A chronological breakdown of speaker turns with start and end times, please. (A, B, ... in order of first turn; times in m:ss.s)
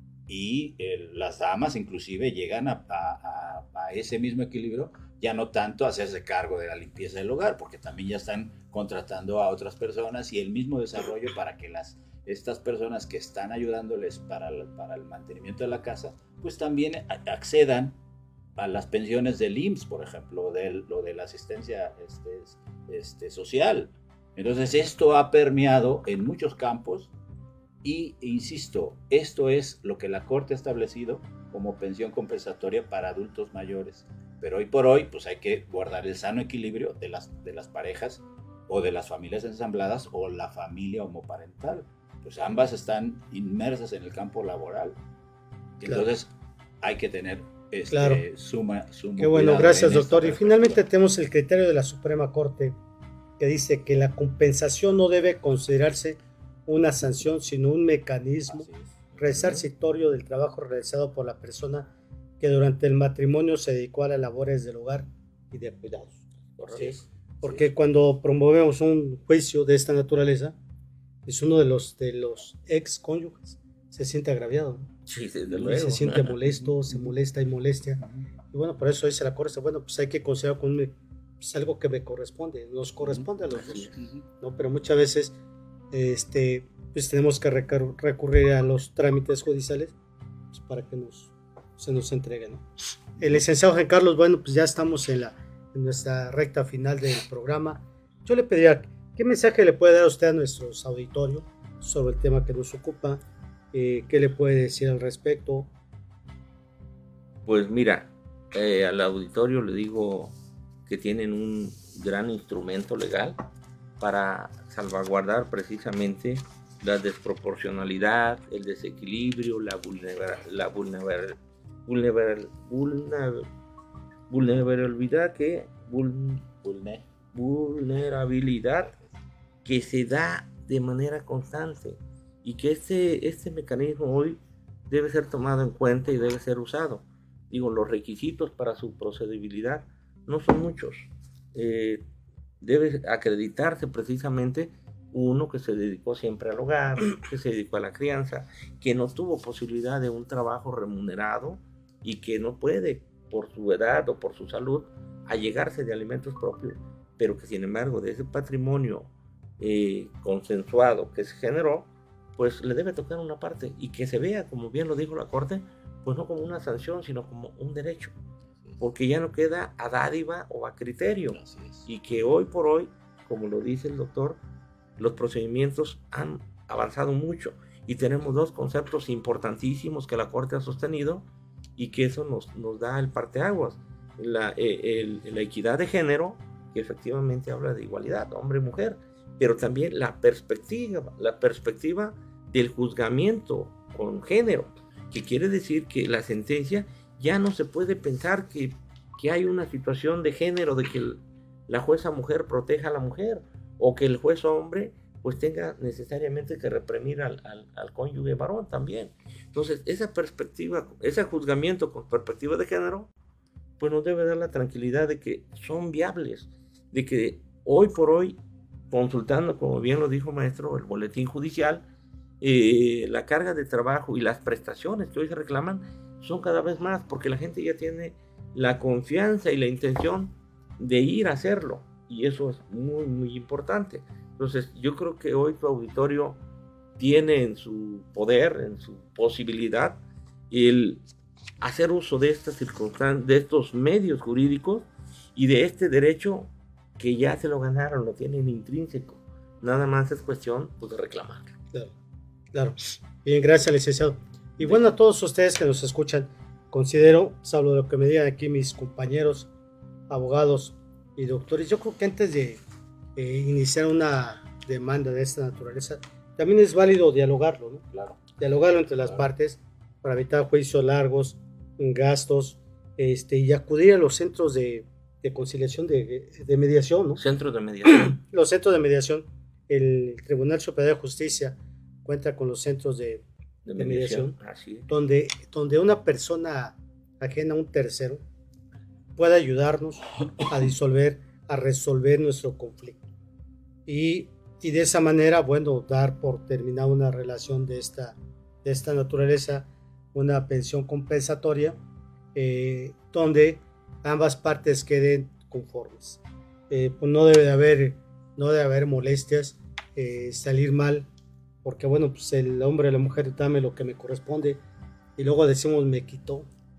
0:00.3-0:18.0 A
0:18.6-0:27.1 A
0:27.8-0:45.0 A
0:45.8-0:46.3 A
0:46.8-0:50.8 A
0:47.9-0:48.2 B
0:49.2-0:52.8 B
0:53.4-1:06.2 B
0:58.5-0:59.1 A
0:59.3-0:59.6 C
1:06.6-1:07.6 C
1:06.7-1:10.6 B
1:11.2-1:14.9 B
1:15.1-1:16.4 C
1:15.5-1:25.3 B
1:23.6-1:23.9 C
1:24.0-1:24.2 A
1:25.9-1:29.9 B
1:30.5-1:32.6 B
1:33.2-1:43.2 B
1:43.7-1:45.7 B
1:47.4-1:50.3 C
1:50.9-1:53.4 C
1:54.0-2:03.5 C
2:04.3-2:06.5 C
2:06.6-2:07.0 A
2:07.3-2:08.9 C
2:09.6-2:22.0 C
2:22.6-2:48.1 C
2:48.8-2:54.4 C
2:51.3-2:51.9 A
2:55.0-3:01.2 C
3:01.8-3:33.1 C
3:33.8-3:38.4 C
3:38.9-3:41.8 C
3:42.4-3:56.4 C
3:57.0-4:00.0 C
4:00.5-4:01.0 C
4:01.6-4:11.6 C
4:12.5-4:19.5 B
4:20.1-4:22.6 B
4:23.2-4:27.8 B
4:27.9-4:28.2 A
4:28.4-4:37.2 B
4:37.2-4:38.2 C
4:37.8-4:43.2 B
4:43.6-4:44.9 C
4:43.8-4:44.3 B
4:44.9-4:48.2 B
4:49.2-4:53.0 B
4:53.8-5:01.8 B
5:02.3-5:11.1 B
5:11.6-5:14.6 B
5:15.2-5:16.5 B